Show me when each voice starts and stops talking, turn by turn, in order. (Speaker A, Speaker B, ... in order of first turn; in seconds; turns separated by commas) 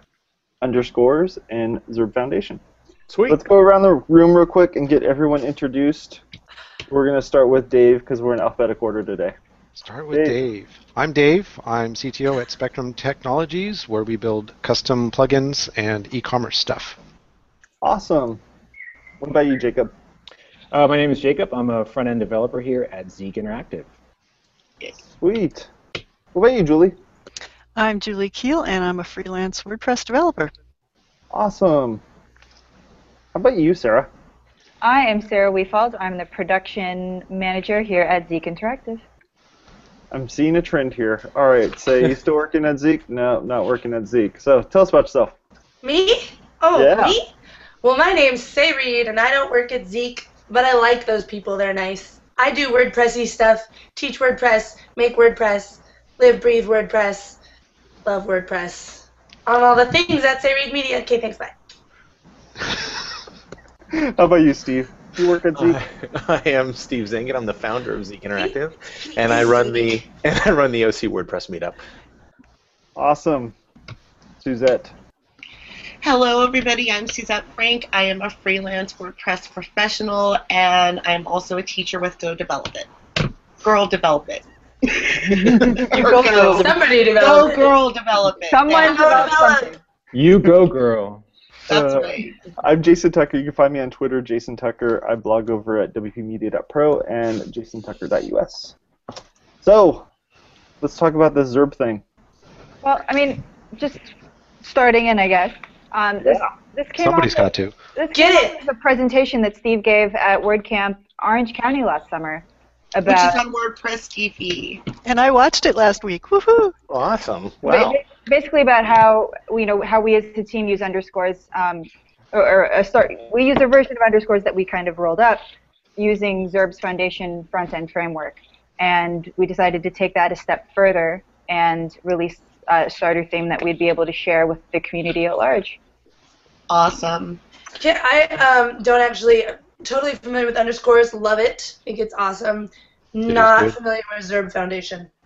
Speaker A: 0.6-2.6, Speaker B: 3.1-3.4, Speaker A: 3.3-6.2, Speaker A: 6.9-9.3, Speaker C: 9.8-17.0, Speaker A: 10.1-10.4, Speaker A: 17.8-18.4, Speaker A: 19.2-19.9, Speaker D: 20.7-23.9, Speaker A: 25.2-25.7, Speaker A: 26.3-26.9, Speaker E: 27.8-30.5, Speaker A: 31.3-32.0, Speaker A: 33.3-34.1, Speaker F: 34.8-39.0, Speaker A: 40.1-45.3, Speaker G: 45.8-47.3, Speaker A: 46.7-47.2, Speaker G: 47.8-57.4, Speaker G: 58.0-61.5, Speaker A: 63.9-65.8, Speaker B: 65.5-71.8, Speaker G: 69.1-69.9, Speaker A: 73.0-73.5, Speaker A: 74.4-74.9, Speaker H: 76.0-82.9, Speaker H: 83.6-89.8, Speaker E: 85.6-86.8, Speaker G: 86.1-87.7, Speaker F: 88.5-89.7, Speaker G: 88.8-89.7, Speaker D: 90.1-91.2, Speaker H: 91.7-92.3, Speaker A: 92.6-98.7, Speaker A: 99.6-100.0, Speaker A: 100.8-102.0, Speaker F: 102.8-104.1, Speaker F: 104.6-113.4, Speaker C: 107.0-107.8, Speaker G: 108.1-108.6, Speaker H: 113.0-114.8, Speaker E: 115.0-116.7, Speaker B: 116.9-118.0, Speaker F: 117.6-125.4, Speaker F: 126.0-135.8, Speaker H: 136.7-137.4, Speaker G: 137.8-145.1, Speaker C: 143.3-143.8